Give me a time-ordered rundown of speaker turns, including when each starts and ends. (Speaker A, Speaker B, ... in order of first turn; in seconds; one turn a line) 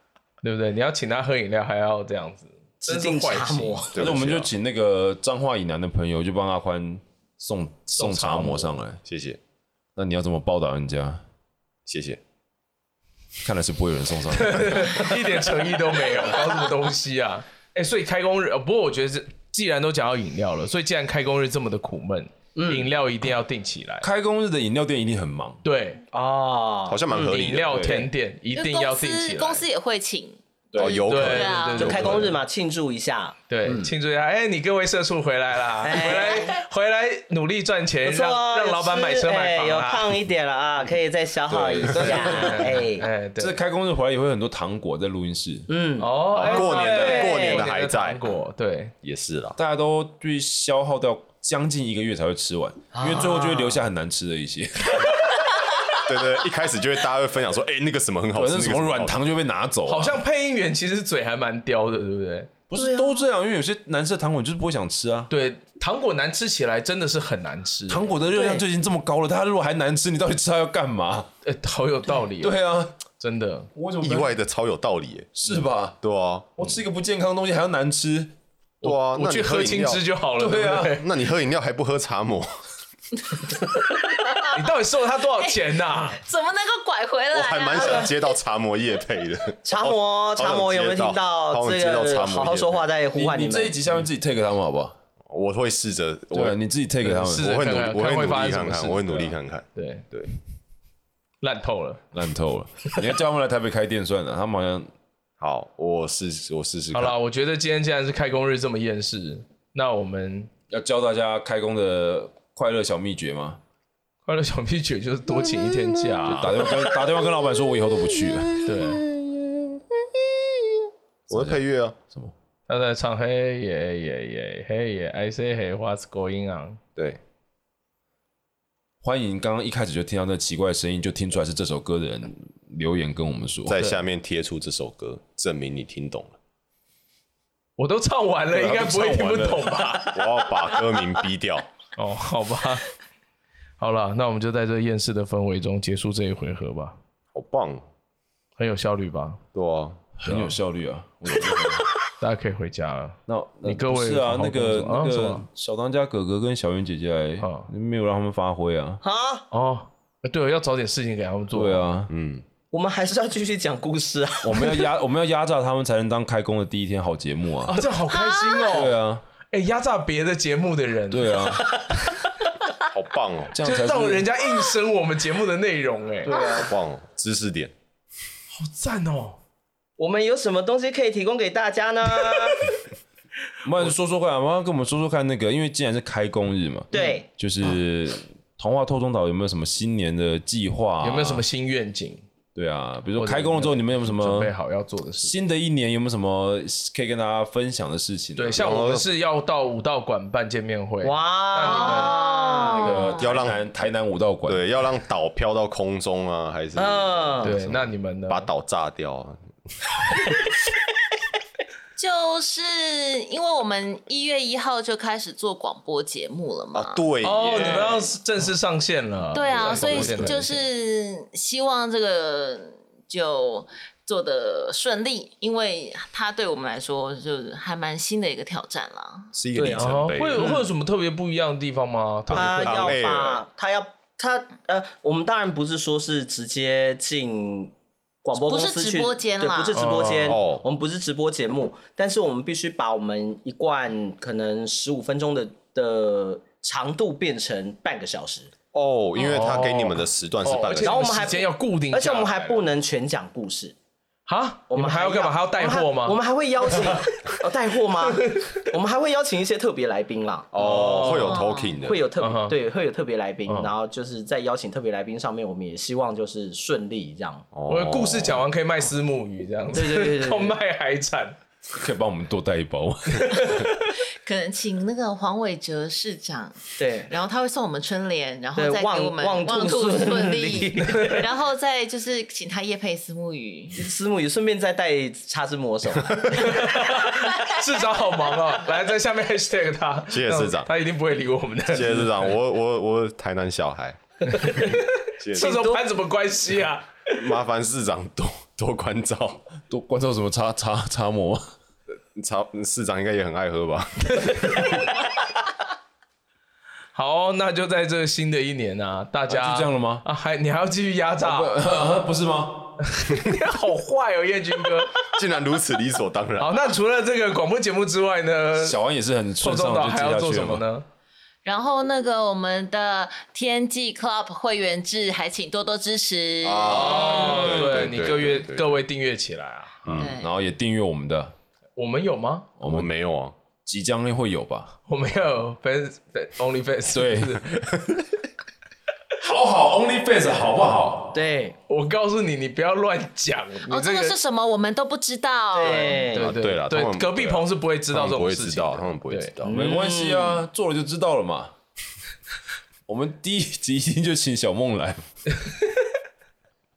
Speaker A: 0.4-3.8
Speaker B: 2.8-4.1
Speaker C: 3.9-4.5
Speaker D: 4.0-9.0
Speaker A: 8.0-8.7
Speaker C: 9.1-9.4
Speaker D: 10.0-11.2
Speaker C: 11.9-12.2
Speaker D: 13.4-15.0
Speaker A: 14.3-24.1
Speaker B: 22.6-22.9
Speaker D: 24.0-25.6
Speaker A: 25.6-26.0
Speaker B: 26.1-27.4
Speaker C: 26.9-27.9
Speaker A: 27.2-29.6
Speaker D: 27.6-28.1
Speaker E: 28.5-32.1
Speaker D: 30.7-31.1
Speaker C: 30.8-32.2
Speaker A: 31.1-32.4
Speaker B: 31.8-33.4
Speaker A: 33.5-40.1
Speaker D: 33.6-33.9
Speaker B: 35.8-36.6
Speaker B: 38.0-43.1
Speaker D: 41.5-42.8
Speaker A: 42.0-43.6
Speaker D: 43.4-45.7
Speaker B: 45.7-47.7
Speaker A: 46.0-48.9
Speaker C: 46.3-48.3
Speaker C: 49.0-49.6
Speaker D: 49.6-55.1
Speaker B: 52.9-53.8
Speaker C: 55.9-59.2
Speaker D: 58.3-60.2
Speaker A: 59.9-62.5
Speaker D: 62.7-65.3
Speaker B: 62.8-63.1
Speaker A: 65.3-68.1
Speaker D: 67.9-71.3
Speaker B: 68.3-68.6
Speaker A: 71.4-72.6
Speaker D: 72.4-73.0
Speaker A: 73.2-73.7
Speaker D: 73.8-74.4
Speaker C: 74.0-76.7
Speaker D: 75.4-76.0
Speaker D: 76.6-78.3
Speaker A: 78.8-81.1
Speaker C: 78.8-80.0
Speaker D: 80.4-81.0
Speaker C: 80.9-82.5
Speaker A: 84.5-86.2
Speaker E: 85.4-88.3
Speaker C: 87.3-92.9
Speaker B: 89.7-93.8
Speaker D: 93.1-95.0
Speaker C: 95.3-96.6
Speaker D: 96.3-97.6
Speaker A: 97.0-100.1
Speaker C: 97.3-100.3
Speaker A: 101.4-102.0
Speaker D: 102.1-104.9
Speaker C: 105.4-107.2
Speaker A: 106.9-110.5
Speaker D: 110.7-113.6
Speaker A: 114.3-116.7
Speaker D: 116.2-119.1
Speaker A: 118.6-119.0
Speaker D: 121.3-122.3
Speaker C: 121.3-122.0
Speaker A: 122.7-126.8
Speaker D: 129.0-133.9
Speaker C: 133.7-136.4
Speaker A: 137.8-140.4
Speaker D: 138.5-139.9
Speaker C: 140.1-141.7
Speaker A: 142.0-142.9
Speaker A: 143.8-147.0
Speaker C: 147.3-147.8
Speaker A: 148.6-149.4
Speaker C: 149.5-150.0
Speaker D: 150.2-151.9
Speaker A: 150.3-150.5
Speaker A: 152.2-155.4
Speaker D: 153.3-159.0
Speaker A: 157.4-157.7
Speaker B: 159.0-159.5
Speaker A: 159.5-161.8
Speaker D: 161.5-162.1
Speaker C: 162.1-162.4
Speaker B: 162.7-164.9
Speaker D: 164.4-167.8
Speaker A: 167.7-169.0
Speaker E: 168.2-168.5
Speaker D: 168.7-169.2
Speaker A: 169.5-171.7
Speaker D: 171.1-171.7
Speaker B: 171.6-171.9
Speaker C: 172.9-173.6
Speaker D: 173.5-174.3
Speaker A: 173.6-176.4
Speaker B: 176.3-176.7
Speaker C: 176.3-177.7
Speaker A: 178.5-179.4
Speaker B: 180.0-182.7
Speaker D: 183.6-191.4
Speaker B: 186.9-187.3
Speaker A: 191.0-192.2
Speaker D: 192.6-194.5
Speaker A: 193.2-195.4
Speaker D: 195.2-198.8
Speaker A: 198.4-202.2
Speaker C: 198.6-199.1
Speaker B: 201.0-203.0
Speaker E: 201.6-203.3
Speaker D: 202.8-204.7
Speaker C: 203.1-203.6
Speaker C: 204.5-209.4
Speaker B: 206.8-207.5
Speaker A: 207.4-208.5
Speaker E: 212.0-217.0
Speaker C: 216.7-218.1
Speaker A: 217.2-220.6
Speaker E: 219.3-229.3
Speaker D: 219.6-220.4
Speaker C: 229.3-230.5
Speaker B: 229.5-230.6
Speaker A: 229.8-233.0
Speaker B: 232.3-248.5
Speaker C: 232.3-233.4
Speaker E: 238.3-239.8
Speaker A: 239.7-240.4
Speaker C: 240.3-240.6
Speaker C: 248.7-251.3
Speaker A: 249.2-252.6
Speaker B: 250.8-253.8
Speaker A: 254.3-256.2
Speaker B: 254.7-261.3
Speaker C: 260.5-262.0
Speaker A: 260.6-261.5
Speaker E: 261.2-261.8
Speaker B: 261.8-267.5
Speaker A: 262.2-262.6
Speaker A: 263.5-263.7
Speaker C: 267.5-268.4
Speaker A: 267.7-271.4
Speaker B: 269.7-270.6
Speaker D: 271.7-273.5
Speaker A: 273.2-273.9
Speaker E: 274.2-283.8
Speaker B: 276.8-277.1
Speaker B: 278.6-281.2
Speaker A: 280.9-281.2
Speaker B: 283.7-286.9
Speaker A: 286.3-292.3
Speaker C: 290.1-290.7
Speaker C: 291.7-295.6
Speaker A: 294.3-297.2
Speaker B: 295.3-295.8
Speaker C: 297.1-299.4
Speaker D: 299.7-301.5
Speaker C: 302.1-305.0
Speaker A: 304.1-304.9
Speaker A: 306.9-311.6
Speaker D: 309.3-310.0
Speaker D: 311.2-312.8
Speaker A: 312.8-315.1
Speaker C: 315.0-316.7
Speaker A: 316.4-318.8
Speaker D: 318.6-320.6
Speaker A: 319.4-320.9
Speaker E: 321.4-327.3
Speaker C: 326.4-328.7
Speaker A: 326.7-329.8
Speaker D: 327.6-328.1
Speaker C: 329.8-330.1
Speaker D: 329.9-331.3
Speaker E: 329.9-330.3
Speaker A: 331.8-332.5
Speaker D: 332.6-332.9
Speaker C: 332.6-333.3
Speaker D: 333.7-334.7
Speaker A: 334.9-337.6
Speaker D: 336.9-337.9
Speaker D: 339.2-341.2
Speaker B: 341.1-341.6
Speaker A: 341.7-344.1
Speaker E: 343.7-346.1
Speaker B: 345.5-346.4
Speaker A: 345.6-349.4
Speaker C: 346.2-349.6
Speaker B: 349.4-350.4
Speaker D: 349.4-351.6
Speaker D: 352.9-355.0